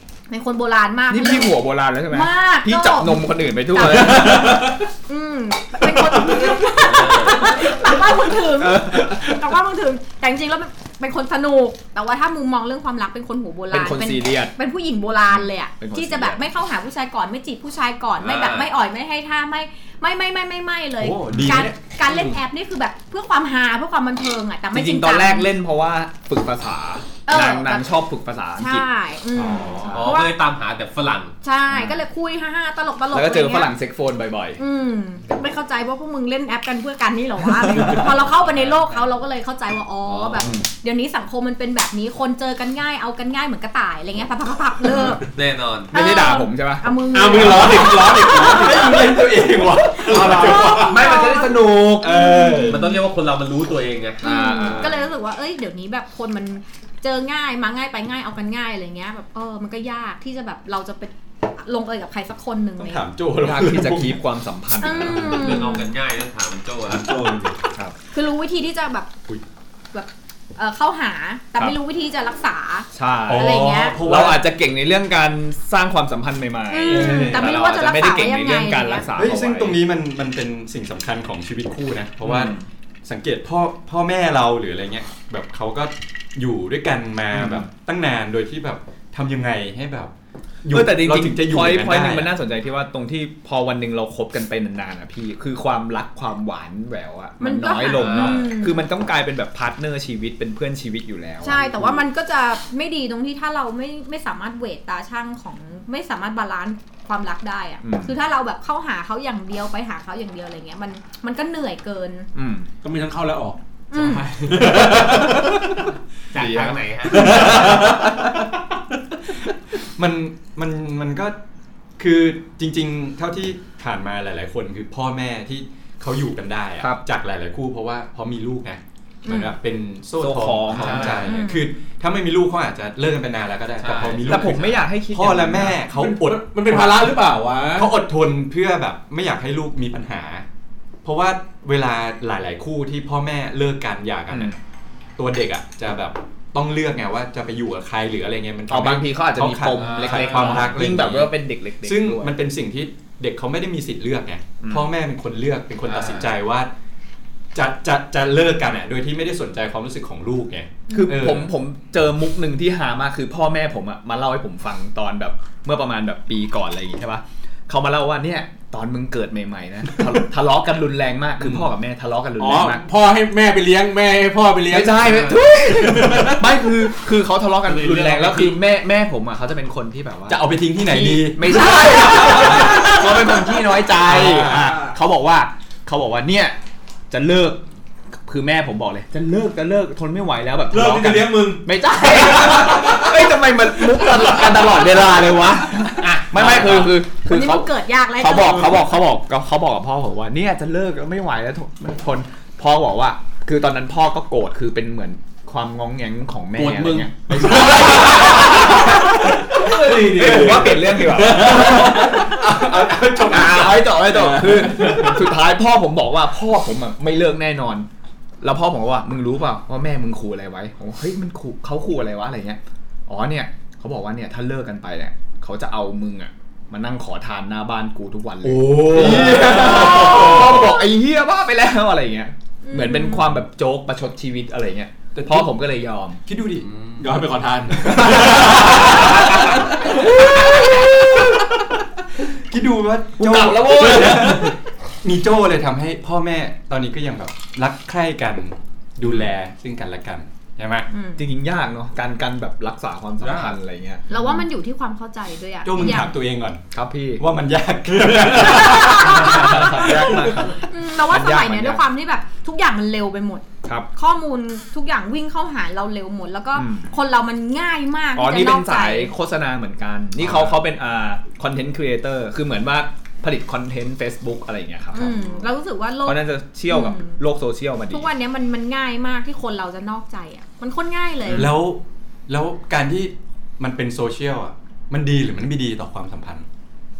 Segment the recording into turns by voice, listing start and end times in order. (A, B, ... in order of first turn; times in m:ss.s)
0:00.3-0:01.6 A
0:01.1-0:04.8 B
0:02.1-0:25.5 A
0:03.8-0:04.9 C
0:06.6-0:07.7 D
0:08.8-0:09.1 C
0:13.7-0:14.5 B
0:15.3-0:16.4 B
0:18.2-0:18.7 D
0:21.0-0:21.8 E
0:24.7-0:28.8 B
0:27.2-0:27.9 A
0:28.6-0:30.3 A
0:29.4-0:29.9 E
0:29.4-0:30.1 B
0:29.8-0:31.3 D
0:31.4-0:33.7 A
0:31.7-0:32.0 B
0:33.1-0:34.6 B
0:34.6-0:45.2 A
0:37.8-0:38.1 B
0:40.0-0:40.5 D
0:40.4-0:40.6 B
0:45.2-0:45.9 D
0:45.9-0:48.5 A
0:45.9-0:52.9 B
0:47.1-0:49.2 C
0:48.6-0:51.1 E
0:50.0-0:51.0 C
0:50.2-0:53.0 A
0:52.6-0:54.2 D
0:54.2-0:55.0 B
0:54.2-1:03.0 A
1:02.8-1:04.2 E
1:03.4-1:05.6 B
1:04.8-1:05.9 A
1:05.1-1:07.1 D
1:07.0-1:07.6 C
1:08.1-1:09.1 A
1:09.9-1:14.0 A
1:12.9-1:19.8 B
1:13.3-1:14.4 E
1:16.7-1:19.1 A
1:16.9-1:17.6 E
1:19.2-1:30.1 E
1:22.2-1:22.6 B
1:27.3-1:27.7 B
1:30.6-1:32.3 E
1:30.7-1:42.0 B
1:37.4-1:38.8 A
1:37.9-1:38.5 D
1:41.4-1:52.3 A
1:47.8-1:48.1 B
1:52.3-1:52.7 B
1:52.8-1:55.7 C
1:53.9-1:54.3 A
1:54.7-1:55.4 B
1:56.3-1:57.6 D
1:56.3-1:58.2 B
1:57.1-1:58.1 C
2:00.0-2:01.4 E
2:02.0-2:17.1 E
2:09.2-2:09.5 A
2:10.2-2:11.4 B
2:10.7-2:11.3 D
2:11.2-2:11.7 A
2:13.8-2:14.6 D
2:14.2-2:15.8 B
2:15.9-2:17.9 C
2:17.7-2:20.4 E
2:21.0-2:24.6 E
2:24.3-2:24.6 B
2:25.2-2:36.7 E
2:28.7-2:32.3 B
2:29.7-2:31.0 D
2:34.6-2:34.9 B
2:35.8-2:36.3 D
2:37.5-2:41.5 E
2:40.9-2:41.2 A
2:40.9-2:52.8 B
2:52.4-2:56.4 C
2:54.7-3:06.6 B
2:55.0-2:55.4 D
2:57.6-2:58.6 D
3:00.3-3:02.7 E
3:02.3-3:02.6 C
3:04.1-3:04.6 E
3:04.1-3:04.9 C
3:07.1-3:07.6 B
3:08.2-3:32.6 B
3:10.7-3:13.3 C
3:16.0-3:17.0 D
3:17.2-3:18.8 A
3:26.6-3:27.7 D
3:27.4-3:32.3 C
3:31.4-3:33.9 E
3:33.3-3:37.9 B
3:33.5-3:35.1 C
3:38.4-3:56.2 B
3:48.4-3:50.7 E
3:52.6-3:53.3 A
3:55.1-3:55.5 E
3:56.3-3:56.7 E
3:56.6-3:57.0 D
3:57.0-4:00.0 C
3:57.8-3:59.2 B
3:57.9-3:58.5 E
3:59.9-4:01.1 B
4:02.5-4:10.9 E
4:03.2-4:04.5 B
4:03.8-4:04.4 C
4:10.9-4:11.2 A
4:11.2-4:14.0 B
4:13.2-4:13.5 D
4:14.1-4:16.1 A
4:15.6-4:16.6 E
4:16.7-4:17.2 B
4:17.2-4:20.3 E
4:18.4-4:29.1 A
4:18.6-4:21.8 B
4:26.5-4:26.9 B
4:28.1-4:35.2 B
4:30.2-4:30.5 E
4:34.9-4:37.2 A
4:36.0-4:38.1 B
4:37.9-4:41.5 A
4:41.3-4:46.4 E